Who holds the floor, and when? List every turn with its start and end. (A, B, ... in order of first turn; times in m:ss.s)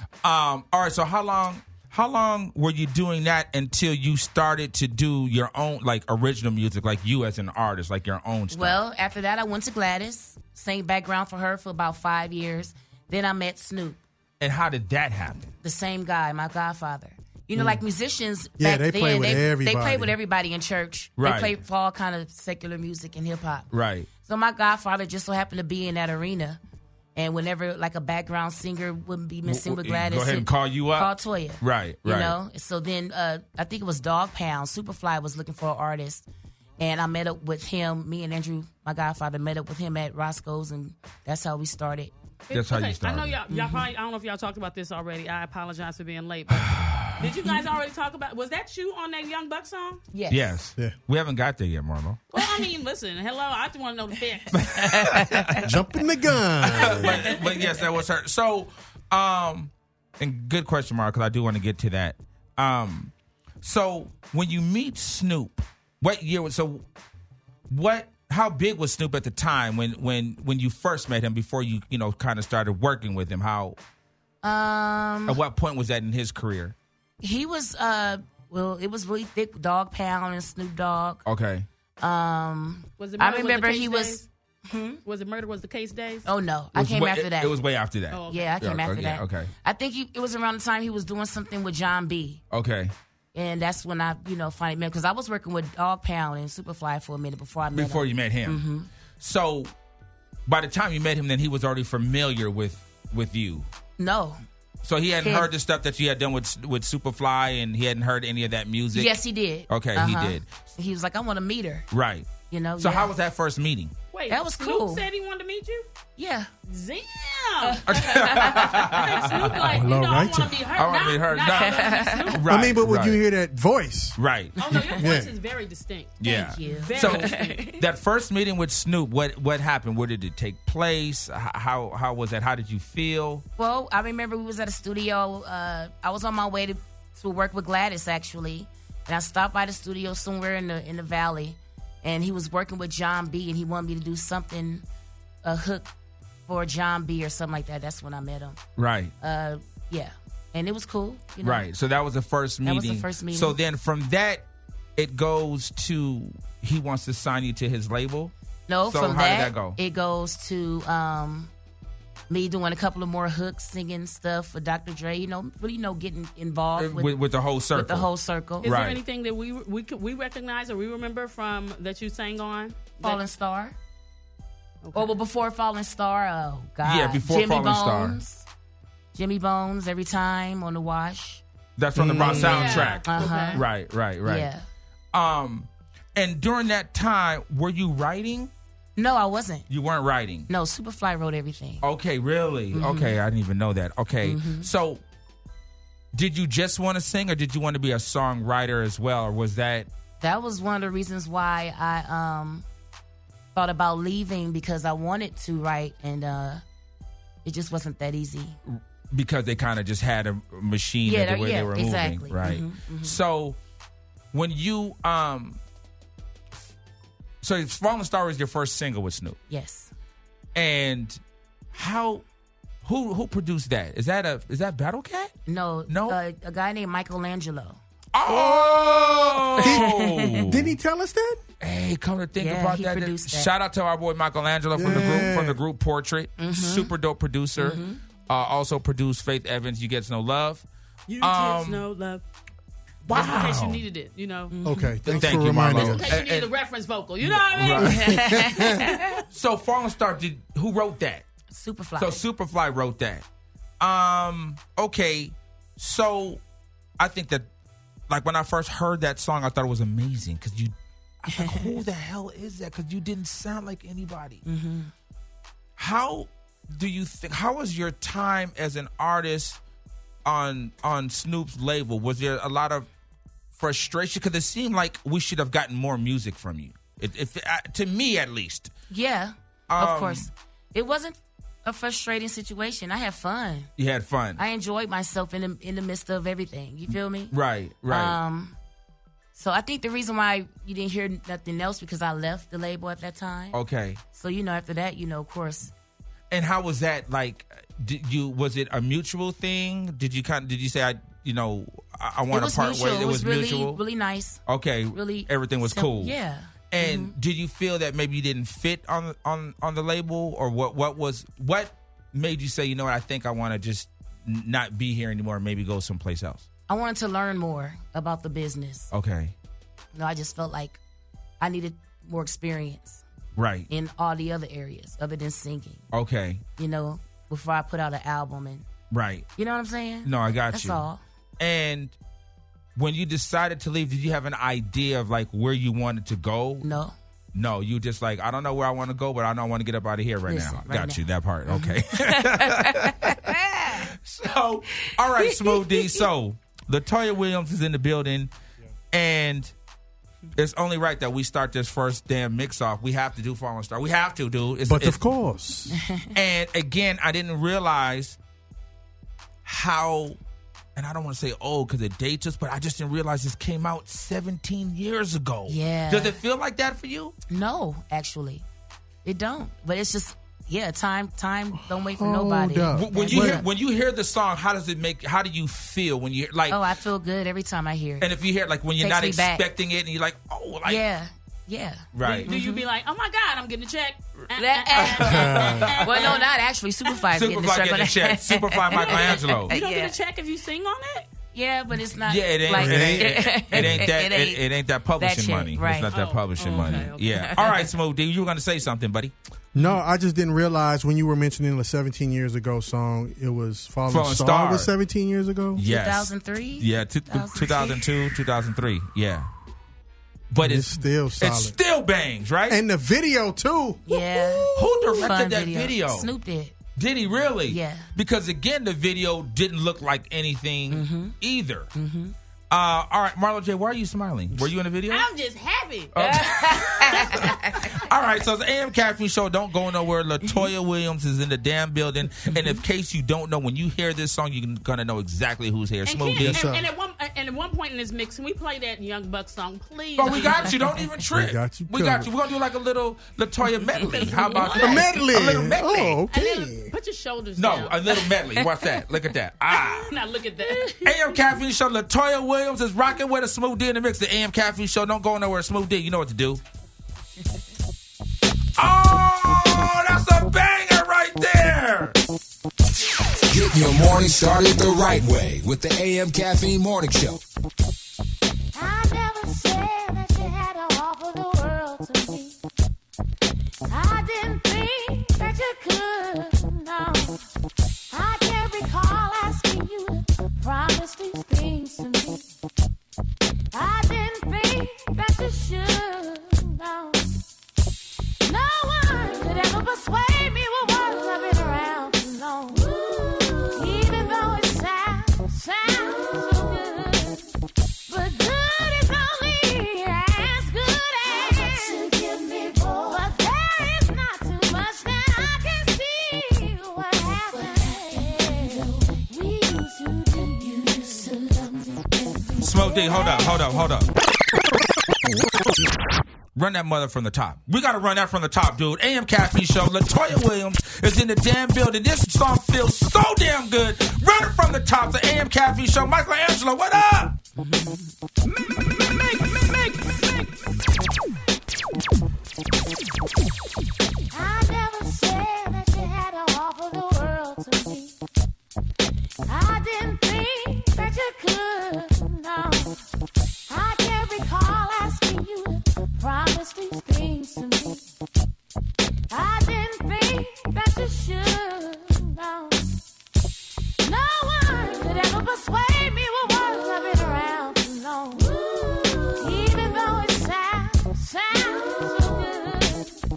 0:00.2-0:08.8 A
0:08.5-0:14.0 B
0:14.4-0:15.5 A
0:15.6-0:23.7 B
0:17.6-0:17.8 C
0:18.6-0:20.1 C
0:21.2-0:21.5 A
0:23.7-0:24.1 A
0:24.2-0:26.6 B
0:27.2-0:36.2 B
0:29.4-0:32.4 A
0:36.8-0:42.1 B
0:42.5-0:50.0 D
0:42.5-0:43.4 A
0:43.5-0:43.8 B
0:46.5-0:47.3 A
0:50.1-0:50.6 B
0:50.3-0:52.2 A
0:52.3-0:54.8 D
0:54.5-0:55.7 A
0:55.1-0:55.6 B
0:55.6-0:57.3 C
0:56.6-1:06.8 A
0:56.7-0:57.7 D
1:07.7-1:13.8 A
1:14.4-1:15.4 B
1:15.3-1:16.7 A
1:17.2-1:21.2 B
1:21.2-1:21.7 A
1:22.0-1:25.0 B
1:23.0-1:24.2 D
1:25.0-1:26.3 D
1:26.2-1:27.6 B
1:26.7-1:29.5 A
1:28.1-1:28.5 D
1:28.3-1:32.4 B
1:32.5-1:32.9 A
1:33.3-1:38.9 B
1:37.7-1:38.6 A
1:39.2-1:39.7 A
1:40.4-1:43.7 A
1:44.0-1:44.4 B
1:44.8-1:49.1 A
1:45.2-1:45.5 B
1:48.9-1:51.9 B
1:49.7-1:50.4 A
1:51.9-1:53.9 A
1:52.5-1:53.1 B
1:54.1-1:55.8 D
1:54.3-1:55.0 B
1:56.2-1:56.5 B
1:56.7-2:02.5 D
1:57.8-1:59.8 A
1:59.6-2:00.6 C
2:00.8-2:03.2 A
2:01.8-2:02.2 B
2:02.5-2:04.2 C
2:04.2-2:04.6 A
2:04.6-2:07.6 D
2:05.0-2:05.3 C
2:06.2-2:13.4 A
2:06.2-2:07.2 B
2:07.4-2:07.8 E
2:13.6-2:24.8 B
2:25.4-2:25.9 B
2:26.5-2:28.6 B
2:28.8-2:29.1 A
2:29.2-2:31.7 B
2:31.4-2:38.3 A
2:32.6-2:33.6 B
2:38.7-2:41.5 B
2:38.8-2:39.8 A
2:42.3-2:47.2 B
2:46.8-2:48.1 A
2:47.7-2:48.7 B
2:48.6-2:53.2 D
2:48.6-2:49.0 A
2:53.0-2:53.7 B
2:54.8-2:55.1 D
2:54.9-2:58.4 B
2:56.8-2:58.2 A
2:59.1-3:01.4 B
3:01.8-3:04.5 A
3:02.0-3:02.6 C
3:02.1-3:03.6 B
3:02.2-3:03.6 D
3:04.2-3:04.6 B
3:05.1-3:08.5 A
3:09.0-3:09.6 B
3:09.7-3:10.5 A
3:10.5-3:11.8 B
3:11.8-3:15.0 A
3:12.7-3:13.2 B
3:14.2-3:14.7 B
3:16.1-3:19.9 A
3:20.2-3:22.6 B
3:23.5-3:26.6 B
3:27.4-3:28.6 B
3:28.7-3:33.6 A
3:31.0-3:33.2 B
3:34.3-3:35.6 A
3:37.4-3:39.4 A
3:39.5-3:39.9 B
3:40.5-3:41.2 A
3:41.7-3:42.2 A
3:42.8-3:45.3 A
3:45.5-3:47.8 B
3:45.9-3:46.2 A
3:48.1-3:50.7 A
3:48.2-3:51.4 C
3:49.6-3:50.3 B
3:51.6-4:00.6 A
3:52.4-3:53.5 B
3:54.7-3:55.6 C
3:56.4-3:56.9 B
3:57.6-3:58.0 B
4:01.1-4:02.2 D
4:01.2-4:01.8 A
4:03.0-4:03.8 A
4:03.1-4:04.5 D
4:04.5-4:05.2 B
4:04.6-4:06.2 C
4:05.0-4:06.5 A
4:05.7-4:09.2 D
4:07.2-4:08.4 A
4:07.8-4:08.9 C
4:08.0-4:08.7 B
4:09.3-4:11.2 A
4:11.5-4:12.2 B
4:12.0-4:13.2 A
4:13.8-4:16.4 A
4:17.0-4:17.5 A
4:18.1-4:24.4 A
4:21.3-4:21.7 B
4:24.4-4:24.9 B
4:25.8-4:29.6 A
4:30.2-4:32.9 A
4:33.6-4:38.7 A
4:38.9-4:43.7 B
4:39.7-4:40.3 A
4:43.8-4:44.4 A
4:44.4-4:47.3 B
4:47.3-4:48.2 A
4:47.9-4:48.6 B
4:49.3-4:53.6 B
4:53.5-4:54.0 A
4:54.1-4:55.7 B
4:56.3-5:03.8 A
5:02.3-5:04.4 B
5:04.4-5:06.2 A
5:04.9-5:07.1 B
5:06.7-5:16.4 A
5:16.7-5:18.9 B
5:18.9-5:19.3 A
5:19.9-5:20.8 B
5:21.4-5:23.0 B
5:23.3-5:23.7 A
5:23.7-5:25.8 B
5:25.9-5:26.4 A
5:26.6-5:28.6 B
5:28.9-5:29.3 A
5:29.4-5:31.0 B
5:30.0-5:30.8 A
5:31.4-5:32.0 A
5:32.8-5:36.7 A
5:36.6-5:36.9 B
5:37.3-5:48.3 A
5:40.3-5:43.9 B
5:48.9-5:49.5 A
5:50.4-5:55.0 A
5:54.6-5:55.8 C
5:55.7-5:56.1 B
5:56.1-5:58.2 A
5:59.4-6:00.2 A
6:00.8-6:07.1 A
6:05.5-6:06.2 B
6:07.3-6:08.4 B
6:09.0-6:13.5 B
6:11.5-6:13.4 C
6:12.7-6:16.6 A
6:16.5-6:18.1 B
6:18.0-6:20.8 A
6:18.8-6:19.4 B
6:20.6-6:22.6 B
6:21.9-6:22.3 A
6:22.0-6:26.2 D
6:24.3-6:30.0 B
6:24.8-6:26.2 A
6:25.0-6:25.8 C
6:27.1-6:29.5 A
6:28.7-6:31.1 D
6:31.3-6:34.4 B
6:32.0-6:39.1 A
6:32.5-6:33.9 C
6:35.0-6:35.9 B
6:35.9-6:37.4 D
6:36.5-6:37.7 B
6:39.5-6:45.6 C
6:43.9-6:44.7 A
6:45.6-6:49.3 A
6:45.6-6:47.9 B
6:50.3-6:52.6 A
6:50.4-6:51.6 C
6:52.5-6:54.7 C
6:53.9-6:56.6 B
6:54.5-6:56.1 A
6:56.8-7:01.7 A
6:57.5-6:57.9 B
7:00.7-7:01.2 B
7:01.7-7:02.1 B
7:02.5-7:05.1 A
7:04.9-7:06.2 D
7:05.9-7:16.4 A
7:06.0-7:07.6 B
7:06.9-7:07.3 D
7:10.2-7:10.5 B
7:12.2-7:12.6 B
7:15.8-7:20.5 D
7:16.2-7:16.7 C
7:20.0-7:26.0 A
7:21.1-7:22.1 C
7:24.0-7:24.9 D
7:24.6-7:26.7 C
7:26.1-7:28.1 D
7:27.4-7:29.9 A
7:29.5-7:31.2 D
7:30.8-7:36.4 A
7:38.6-7:42.0 A
7:43.3-7:47.2 F
7:48.5-7:52.4 E
7:53.7-7:57.2 E
7:57.9-8:02.2 E
8:03.5-8:07.1 E
8:08.2-8:17.3 E
8:17.9-8:33.8 E
8:32.4-8:33.9 A
8:36.3-8:47.1 A
8:47.4-8:47.9 B
8:49.0-8:49.9 E
8:54.1-8:58.0 E
8:59.3-9:02.8 E
9:03.5-9:07.8 E
9:09.1-9:12.7 E
9:13.8-9:23.0 E